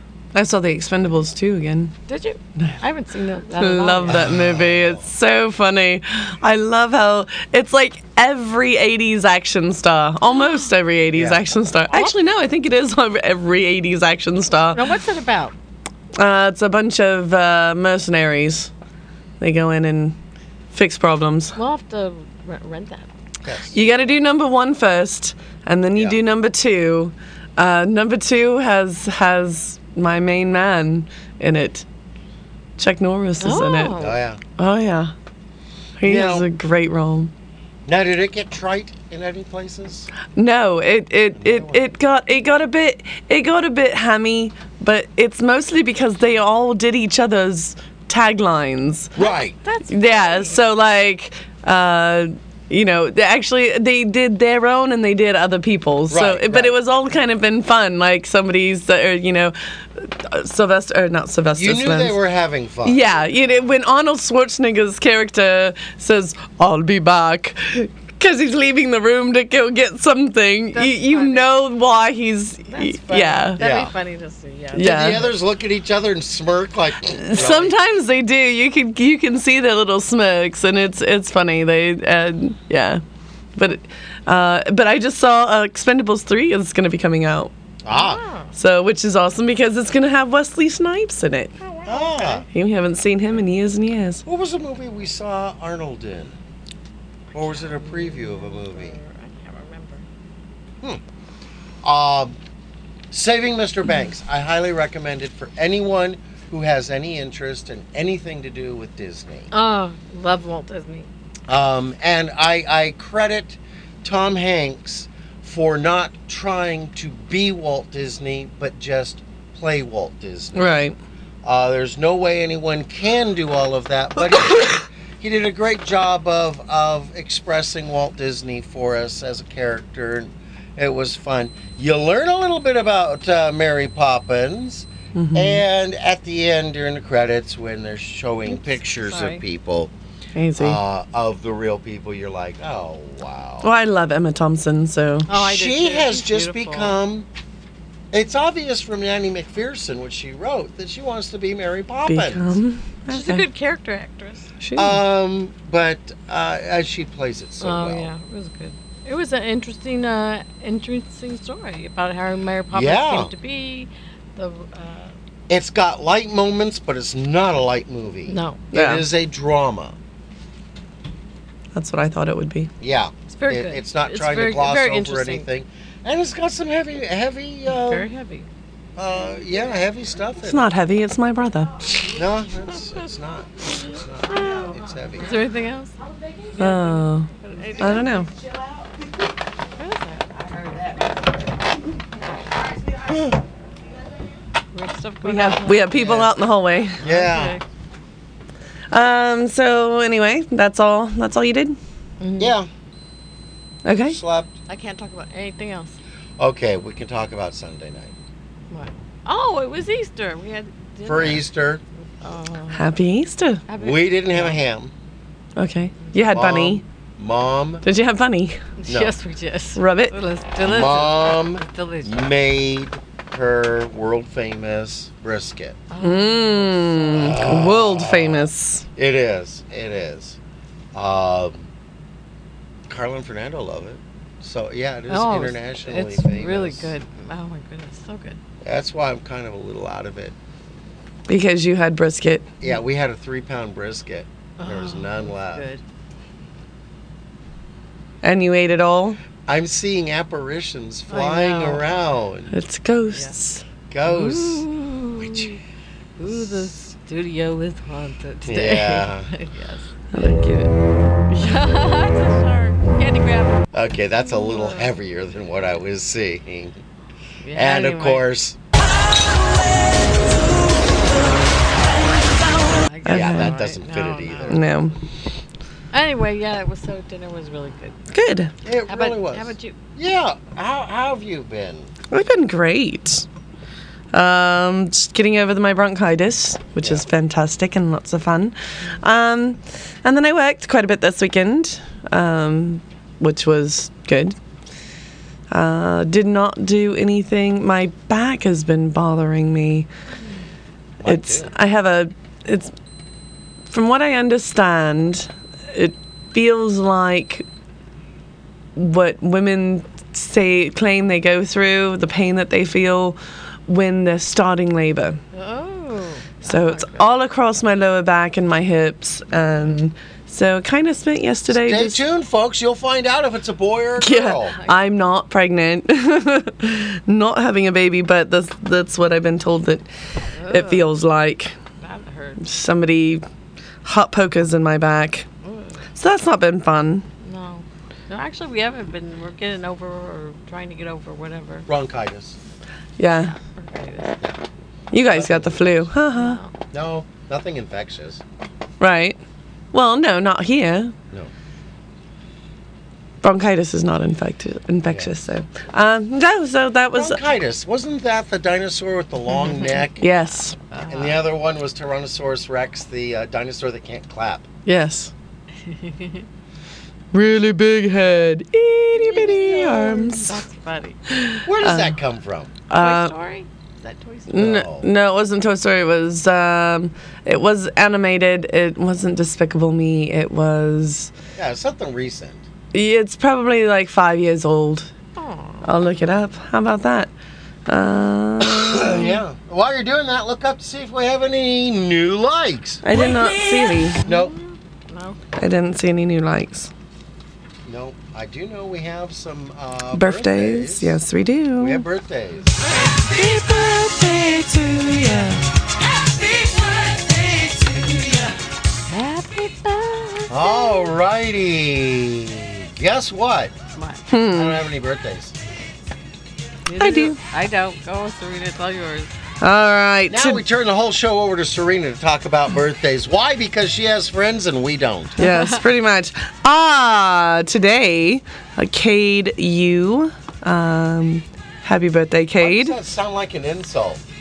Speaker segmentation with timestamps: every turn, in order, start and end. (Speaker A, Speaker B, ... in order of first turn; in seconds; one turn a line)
Speaker A: 0.3-1.9
Speaker B: 2.1-4.3
Speaker A: 3.6-14.9
Speaker C: 4.1-5.1
Speaker C: 11.1-11.4
Speaker B: 14.7-15.6
Speaker A: 16.2-18.7
Speaker A: 19.4-20.2
Speaker A: 20.7-21.6
Speaker B: 21.6-23.1
Speaker C: 23.4-24.1
Speaker A: 23.7-31.9
Speaker C: 25.9-26.2
Speaker A: 32.8-34.0
Speaker B: 33.4-34.2
Speaker C: 34.0-34.4
Speaker A: 34.6-35.1
Speaker A: 36.0-37.3
Speaker C: 36.0-36.5
Speaker C: 37.9-40.1
Speaker A: 40.4-49.1
Speaker C: 41.4-41.9
Speaker C: 49.2-49.6
Speaker B: 49.2-50.6
Speaker A: 49.9-62.2
Speaker C: 56.1-56.8
Speaker C: 61.6-63.1
Speaker A: 62.8-73.6
Speaker B: 63.2-63.6
Speaker B: 70.7-71.5
Speaker B: 72.7-75.3
Speaker C: 73.6-74.0
Speaker A: 74.8-75.3
Speaker C: 74.8-77.8
Speaker A: 77.2-83.0
Speaker A: 83.6-87.5
Speaker C: 87.8-88.2
Speaker B: 87.9-88.5
Speaker A: 88.6-91.5
Speaker B: 91.6-92.5
Speaker C: 91.9-92.5
Speaker A: 92.5-94.2
Speaker C: 94.3-96.4
Speaker C: 97.3-99.0
Speaker B: 97.5-100.0
Speaker C: 101.8-102.4
Speaker C: 103.1-109.5
Speaker B: 109.5-111.1
Speaker C: 111.5-120.8
Speaker A: 120.5-121.0
Speaker C: 121.4-139.9
Speaker A: 135.2-135.6
Speaker B: 139.1-139.4
Speaker A: 140.3-140.8
Speaker C: 140.6-143.7
Speaker A: 143.6-145.3
Speaker B: 145.3-147.0
Speaker C: 145.3-147.3
Speaker C: 148.1-152.6
Speaker A: 152.1-153.4
Speaker B: 153.1-154.5
Speaker A: 154.6-155.0
Speaker C: 154.8-158.1
Speaker B: 157.6-165.1
Speaker C: 162.7-163.3
Speaker C: 165.5-170.0
Speaker B: 168.3-168.7
Speaker A: 168.7-169.1
Speaker A: 171.8-172.7
Speaker C: 172.8-178.1
Speaker B: 173.3-175.5
Speaker B: 177.7-178.5
Speaker C: 179.0-180.7
Speaker A: 180.4-181.8
Speaker C: 182.1-185.4
Speaker B: 184.3-188.3
Speaker A: 186.6-188.3
Speaker B: 189.8-191.1
Speaker B: 194.7-196.2
Speaker A: 195.2-197.0
Speaker C: 195.9-196.3
Speaker C: 197.0-197.6
Speaker B: 197.0-197.6
Speaker A: 198.9-201.8
Speaker B: 202.2-202.6
Speaker C: 202.4-202.7
Speaker A: 203.8-204.2
Speaker C: 204.1-204.6
Speaker B: 204.7-206.0
Speaker C: 206.4-208.2
Speaker B: 208.7-211.5
Speaker C: 211.1-211.8
Speaker B: 212.2-212.9
Speaker A: 212.7-213.6
Speaker B: 213.7-214.6
Speaker C: 213.8-214.9
Speaker A: 215.6-216.8
Speaker C: 216.3-217.8
Speaker A: 217.8-218.6
Speaker B: 218.8-222.4
Speaker C: 218.9-219.2
Speaker A: 219.8-220.2
Speaker C: 220.6-225.8
Speaker B: 225.9-227.4
Speaker A: 226.0-228.9
Speaker C: 227.1-230.4
Speaker C: 230.9-231.7
Speaker C: 232.9-236.9
Speaker B: 235.1-238.4
Speaker C: 238.6-240.4
Speaker A: 241.3-242.5
Speaker C: 242.6-245.7
Speaker B: 244.6-245.8
Speaker A: 248.2-249.2
Speaker C: 249.5-252.6
Speaker B: 251.1-251.9
Speaker A: 252.5-253.6
Speaker C: 253.9-255.6
Speaker B: 254.1-255.6
Speaker B: 256.2-259.9
Speaker C: 258.5-259.3
Speaker A: 260.1-260.8
Speaker A: 261.3-261.6
Speaker B: 261.4-263.7
Speaker C: 263.7-266.8
Speaker B: 264.3-264.9
Speaker B: 267.4-268.3
Speaker C: 267.5-268.6
Speaker B: 272.5-274.6
Speaker A: 273.1-273.5
Speaker C: 273.1-274.6
Speaker A: 274.5-274.9
Speaker B: 275.9-278.0
Speaker A: 278.1-278.5
Speaker C: 278.6-281.9
Speaker B: 278.9-279.8
Speaker A: 282.1-283.2
Speaker A: 284.1-294.4
Speaker A: 295.5-299.9
Speaker C: 301.0-301.5
Speaker A: 301.1-302.7
Speaker A: 303.7-307.4
Speaker A: 308.8-315.2
Speaker B: 315.3-317.1
Speaker A: 316.4-322.0
Speaker C: 321.5-324.6
Speaker A: 324.0-329.9
Speaker B: 330.3-330.9
Speaker A: 330.5-331.6
Speaker B: 331.8-332.4
Speaker A: 332.4-333.2
Speaker A: 333.9-335.3
Speaker B: 335.4-335.8
Speaker A: 336.0-337.1
Speaker B: 337.2-341.7
Speaker C: 341.7-342.4
Speaker A: 343.0-343.3
Speaker B: 343.1-344.2
Speaker A: 344.9-346.4
Speaker C: 345.0-345.9
Speaker B: 346.1-346.5
Speaker C: 346.7-348.2
Speaker A: 348.8-349.2
Speaker A: 349.7-350.9
Speaker A: 353.2-357.2
Speaker C: 356.9-360.0
Speaker A: 360.0-360.6
Speaker B: 360.6-361.3
Speaker C: 360.9-364.5
Speaker A: 364.7-365.1
Speaker B: 365.7-366.3
Speaker A: 367.1-370.4
Speaker C: 368.9-370.3
Speaker B: 370.3-371.0
Speaker A: 371.1-372.0
Speaker C: 371.5-372.6
Speaker A: 372.7-373.1
Speaker B: 372.7-374.4
Speaker A: 374.3-381.1
Speaker C: 374.3-374.9
Speaker C: 381.4-382.4
Speaker A: 382.7-384.9
Speaker B: 385.2-385.7
Speaker A: 385.6-387.1
Speaker A: 387.7-389.1
Speaker C: 388.4-392.8
Speaker A: 392.8-394.0
Speaker B: 394.0-395.2
Speaker C: 394.0-394.3
Speaker A: 395.4-396.7
Speaker C: 397.7-401.0
Speaker A: 399.9-401.8
Speaker C: 401.6-402.5
Speaker A: 403.1-405.4
Speaker B: 408.9-410.9
Speaker C: 410.3-413.6
Speaker B: 413.8-414.0
Speaker A: 414.1-414.6
Speaker C: 414.3-415.4
Speaker B: 416.7-419.1
Speaker A: 416.8-417.2
Speaker A: 419.4-420.4
Speaker C: 420.1-425.1
Speaker B: 425.2-425.6
Speaker A: 425.2-432.8
Speaker C: 432.4-434.1